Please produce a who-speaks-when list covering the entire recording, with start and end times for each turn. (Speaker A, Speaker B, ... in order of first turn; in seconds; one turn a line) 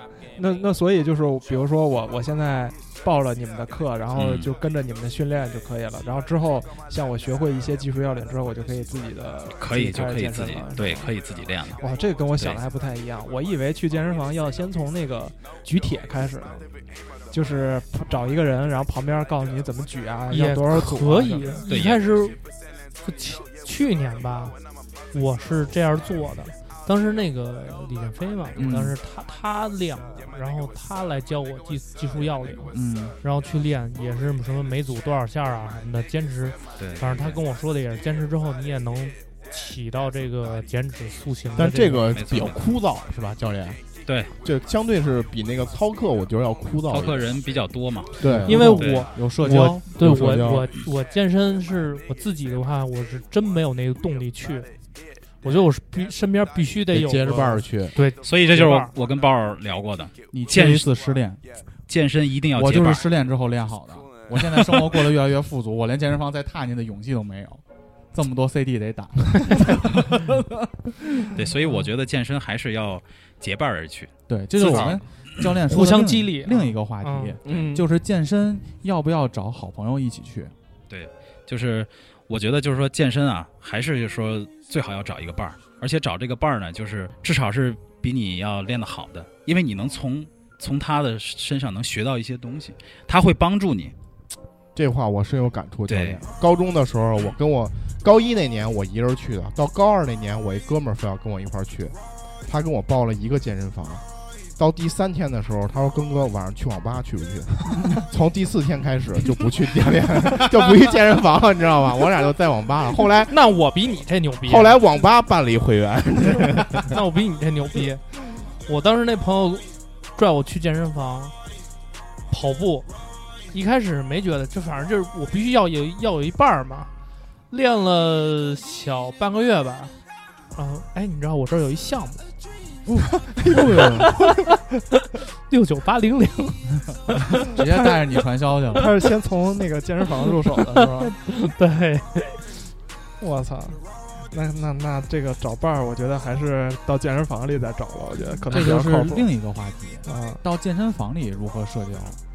Speaker A: 0.3-11.1
Speaker B: 4.1-4.5
Speaker B: 9.6-11.8
Speaker A: 11.8-16.7
Speaker A: 17.3-21.6
Speaker C: 20.3-22.4
Speaker B: 21.7-22.0
Speaker C: 23.0-24.6
Speaker C: 25.1-42.1
Speaker D: 28.6-29.0
Speaker D: 32.7-33.1
Speaker B: 36.8-37.4
Speaker E: 41.5-43.8
Speaker B: 42.1-42.6
Speaker B: 44.1-44.3
Speaker E: 44.4-47.4
Speaker B: 46.9-48.2
Speaker E: 48.2-48.8
Speaker D: 48.2-50.5
Speaker C: 48.5-54.7
Speaker B: 48.8-49.1
Speaker E: 49.9-50.7
Speaker C: 55.4-58.9
Speaker E: 56.9-58.0
Speaker B: 58.2-60.9
Speaker D: 60.3-61.4
Speaker B: 61.9-63.1
Speaker D: 62.5-70.7
Speaker B: 71.4-75.0
Speaker D: 74.3-80.5
Speaker C: 75.7-77.4
Speaker A: 77.5-77.8
Speaker B: 80.9-93.9
Speaker E: 94.8-104.0
Speaker B: 95.9-96.2
Speaker E: 104.6-113.4
Speaker C: 113.2-114.8
Speaker E: 114.4-117.0
Speaker C: 116.8-121.3
Speaker C: 122.3-122.9
Speaker C: 123.5-126.9
Speaker C: 127.5-129.9
Speaker C: 130.5-132.2
Speaker A: 133.4-134.1
Speaker C: 133.5-134.6
Speaker C: 135.5-137.6
Speaker D: 137.5-138.9
Speaker A: 138.8-141.1
Speaker C: 140.8-142.6
Speaker A: 143.2-149.3
Speaker D: 148.5-152.2
Speaker A: 150.1-150.4